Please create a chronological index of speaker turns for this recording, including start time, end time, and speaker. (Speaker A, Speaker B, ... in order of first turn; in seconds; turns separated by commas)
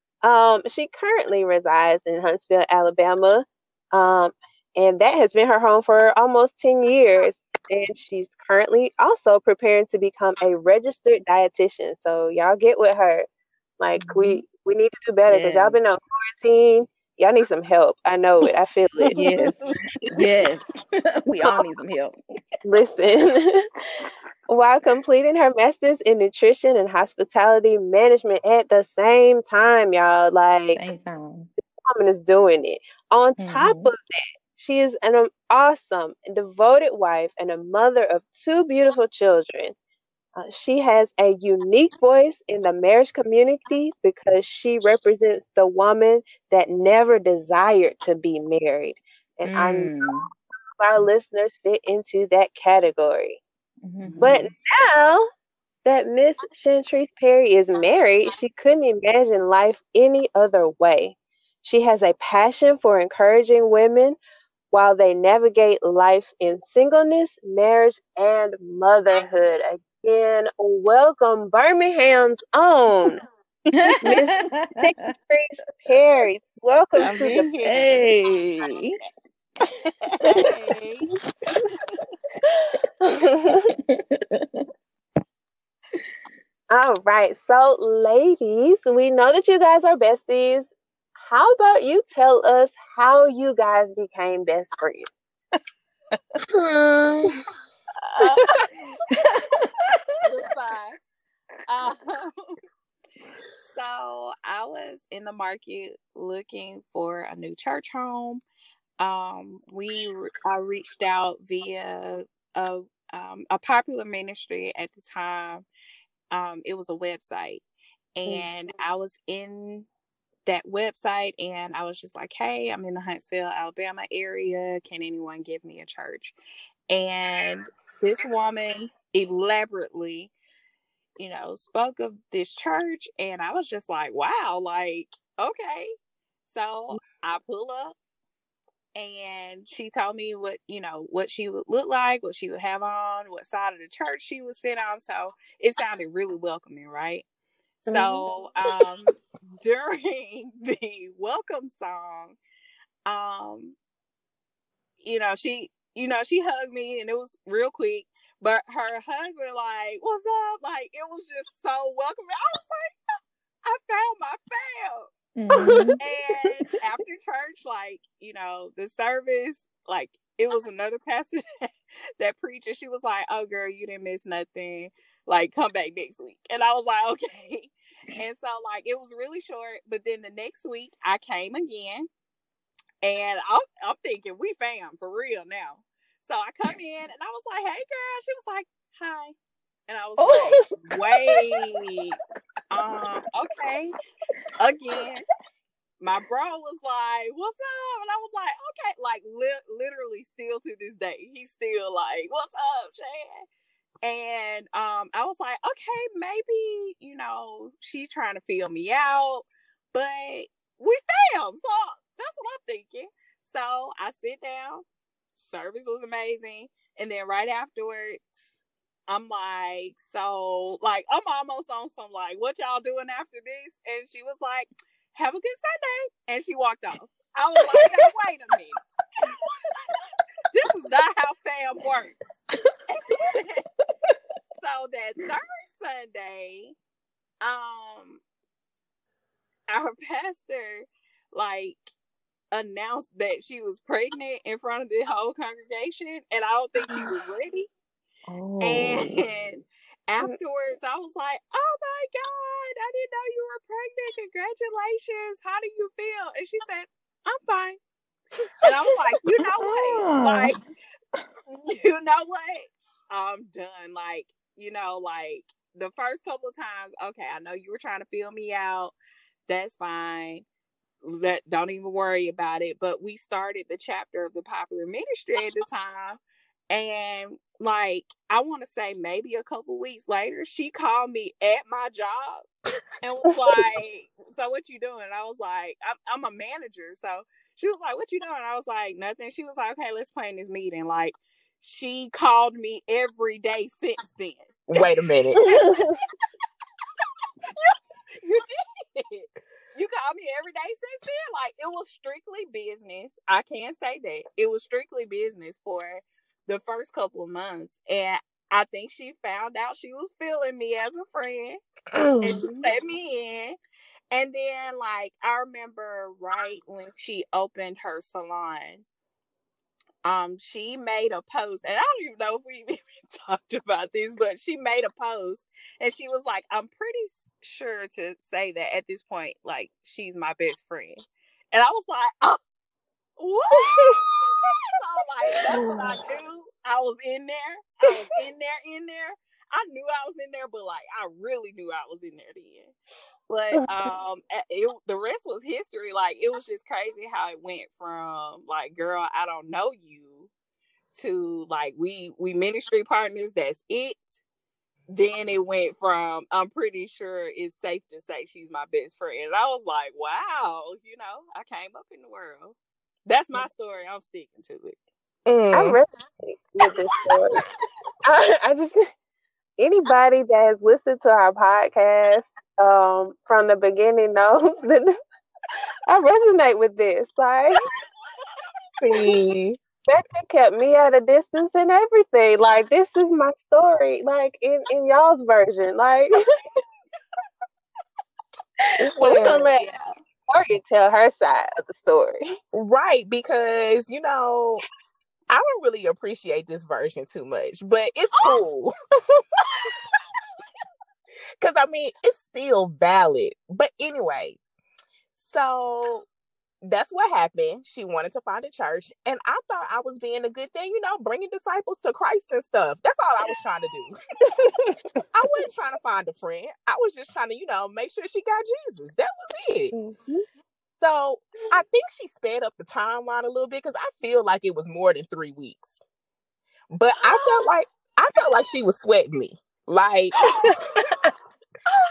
Speaker A: 0.2-13.3, Speaker A: 13.8-19.6, Speaker B: 13.9-14.4, Speaker B: 15.3-15.8, Speaker B: 19.1-19.6, Speaker B: 20.1-22.1, Speaker A: 22.6-23.6, Speaker A: 24.5-30.8, Speaker B: 30.8-31.5, Speaker A: 31.9-39.7, Speaker B: 33.4-33.9, Speaker A: 40.4-50.3, Speaker B: 49.4-50.2, Speaker A: 50.8-53.4, Speaker B: 53.8-54.5, Speaker C: 54.0-54.4, Speaker A: 54.2-55.3, Speaker A: 55.8-64.2, Speaker A: 64.7-73.2, Speaker B: 73.8-74.8, Speaker A: 74.0-77.5, Speaker C: 77.0-78.1, Speaker B: 77.6-79.0, Speaker C: 80.1-81.1, Speaker A: 82.6-83.8, Speaker B: 83.7-84.6, Speaker A: 86.7-95.1, Speaker D: 96.5-97.3, Speaker C: 98.2-98.6, Speaker B: 99.3-99.7, Speaker C: 100.2-101.0, Speaker C: 101.7-102.5, Speaker C: 103.6-108.4, Speaker C: 109.0-115.6, Speaker C: 116.3-117.6, Speaker C: 118.2-119.9, Speaker C: 120.5-126.3, Speaker C: 126.9-130.3, Speaker C: 131.2-135.9, Speaker C: 136.4-137.9, Speaker C: 138.9-147.2, Speaker C: 147.8-152.4, Speaker A: 147.9-148.2, Speaker C: 153.1-153.8, Speaker C: 155.0-162.9, Speaker C: 163.6-165.1, Speaker B: 165.4-166.0, Speaker A: 165.6-165.9, Speaker C: 166.0-182.1, Speaker C: 183.0-189.3, Speaker C: 189.9-192.2, Speaker A: 190.2-191.4, Speaker C: 192.7-193.9, Speaker C: 194.6-195.2, Speaker C: 196.0-203.4, Speaker C: 204.0-228.8, Speaker C: 230.5-232.4, Speaker C: 232.9-233.6, Speaker C: 234.6-236.7, Speaker C: 237.4-238.2, Speaker C: 239.7-241.9, Speaker C: 242.5-247.7, Speaker B: 248.3-249.2, Speaker C: 248.6-257.8, Speaker C: 258.6-260.6, Speaker B: 259.6-260.5, Speaker C: 261.5-268.9, Speaker C: 269.5-270.4, Speaker C: 271.0-276.2, Speaker C: 276.7-282.4, Speaker C: 283.0-294.6, Speaker D: 294.7-295.5, Speaker A: 295.4-296.0, Speaker C: 297.5-311.6, Speaker D: 311.9-312.4, Speaker C: 312.2-313.6, Speaker C: 314.1-318.8, Speaker C: 320.0-332.4, Speaker C: 333.2-342.7, Speaker A: 333.7-334.0, Speaker C: 343.3-350.3, Speaker C: 350.9-354.2, Speaker C: 354.9-364.8, Speaker D: 365.3-365.8, Speaker A: 365.5-367.4, Speaker A: 368.0-368.9, Speaker A: 369.6-374.9, Speaker A: 375.8-377.6, Speaker D: 378.8-379.6, Speaker A: 379.9-386.2, Speaker D: 388.8-389.5, Speaker A: 388.8-389.7, Speaker C: 389.0-389.9, Speaker A: 390.3-392.2, Speaker D: 392.5-394.6, Speaker D: 395.3-398.7, Speaker A: 399.1-399.7, Speaker D: 401.4-404.5, Speaker D: 405.1-406.1, Speaker D: 406.6-414.0, Speaker A: 414.3-415.0, Speaker D: 415.1-419.7, Speaker A: 419.7-420.2, Speaker D: 420.8-425.8, Speaker D: 426.7-430.3, Speaker A: 430.3-431.1